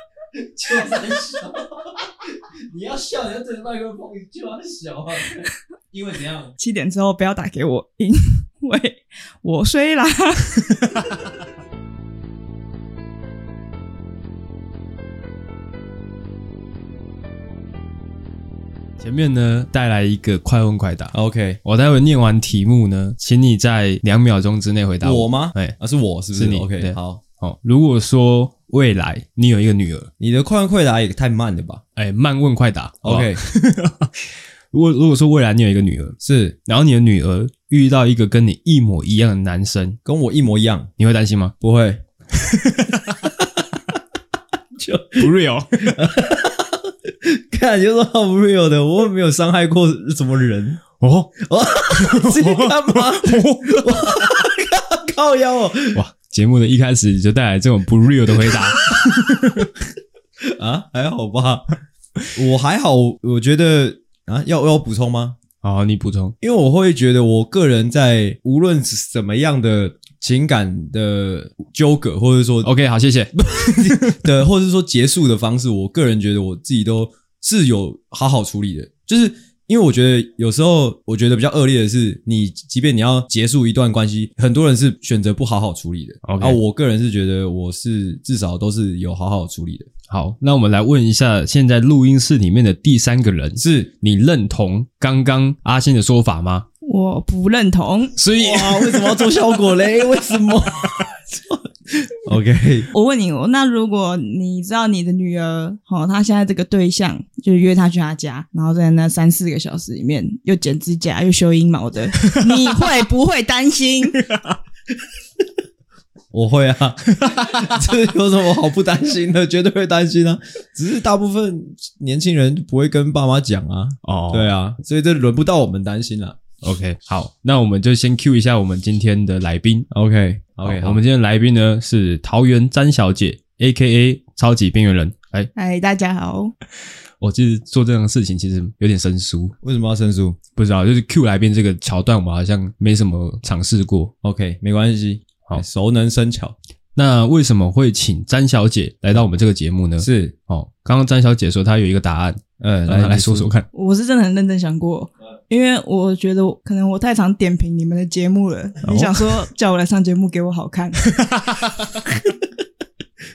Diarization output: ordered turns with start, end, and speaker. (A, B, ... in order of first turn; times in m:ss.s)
0:00.3-0:06.5 A
0:06.6-0:11.0 B
0:11.0-0:11.3 C
0:19.0-0:25.8 C
0:21.1-0:21.6 A
0:25.0-0:27.2 A
0:26.3-0:30.1 C
0:30.2-0:31.8 A
0:32.0-0:40.0 C
0:33.0-0:33.4 A
0:36.2-0:36.6 A
0:40.0-0:40.9 A
0:41.0-0:41.5 C
0:41.6-0:42.0 A
0:42.3-0:43.3 C
0:44.7-0:50.8 A
0:45.2-0:46.0 C
0:51.0-0:51.4 C
0:51.4-0:56.0 A
0:51.9-0:54.2 C
0:55.9-0:59.7 C
0:58.7-0:59.7 A
1:00.4-1:01.8 A
1:02.3-1:05.4 A
1:05.6-1:06.3 C
1:06.4-1:12.7 A
1:12.6-1:14.2 C
1:13.4-1:29.9 A
1:26.2-1:26.6 C
1:30.1-1:36.6 C
1:33.6-1:33.9 A
1:36.8-1:38.2 B
1:38.2-1:39.2 C
1:38.3-1:42.9 A
1:42.9-1:54.2 B
1:52.2-1:52.6 C
1:54.1-1:54.6 C
1:56.3-2:06.4 A
1:57.1-1:57.9 C
2:04.0-2:04.5 C
2:06.6-2:09.9 C
2:09.9-2:11.0 A
2:10.6-2:15.5 C
2:15.5-2:16.5 B
2:17.2-2:19.6 C
2:19.6-2:20.4 A
2:20.6-2:24.1 C
2:24.2-2:26.6 A
2:27.0-2:33.6 C
2:30.0-2:30.3 A
2:32.6-2:33.5 A
2:33.7-2:41.2 B
2:38.8-2:39.3 C
2:41.0-2:42.0 C